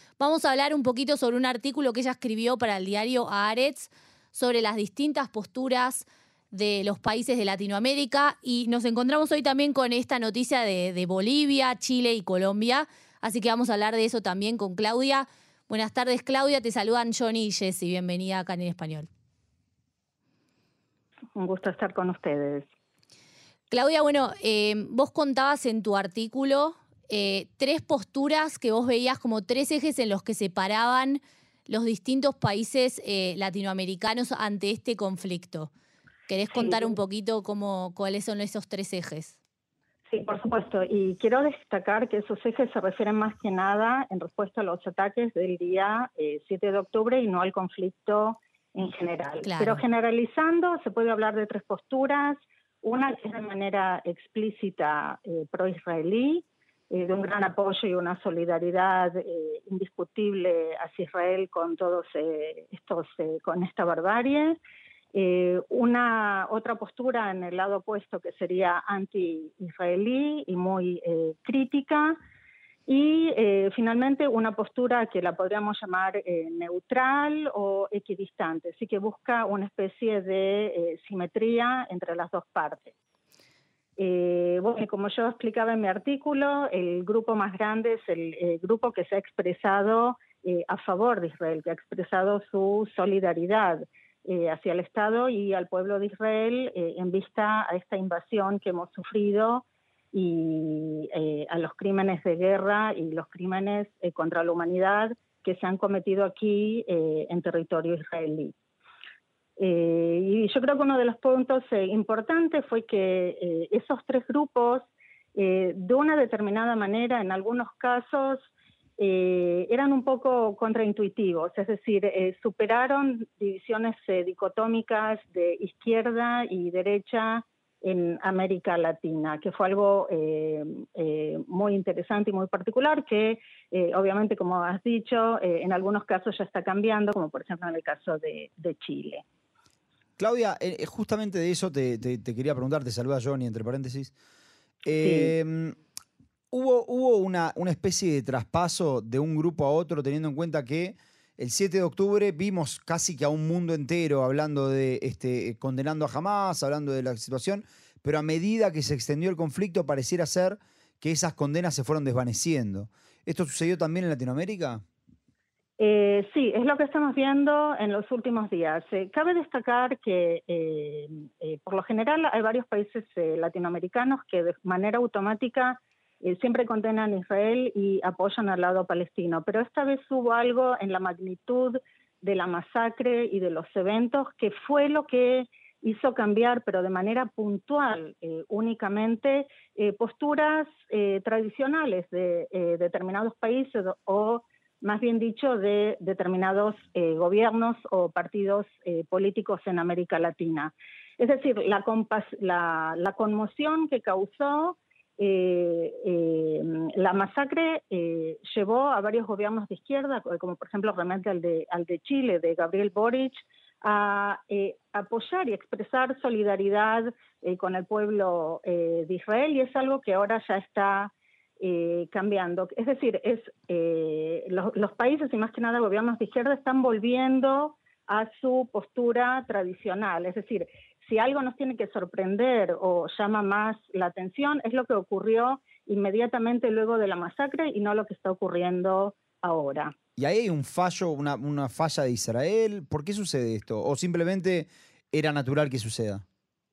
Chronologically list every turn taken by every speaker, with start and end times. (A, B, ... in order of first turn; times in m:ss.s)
0:00.2-0:19.1 A
0:21.4-0:22.7 B
0:23.7-0:35.7 A
0:36.3-0:39.4 A
0:36.5-0:37.0 B
0:40.1-1:04.6 B
0:49.4-0:49.8 A
1:05.1-1:12.2 B
1:12.9-1:23.0 B
1:24.0-1:48.6 B
1:49.6-2:19.2 B
2:20.2-2:24.1 C
2:24.8-2:25.8 C
2:25.0-2:25.3 B
2:26.5-2:44.8 C
2:45.8-3:59.9 B
4:00.2-4:06.2 C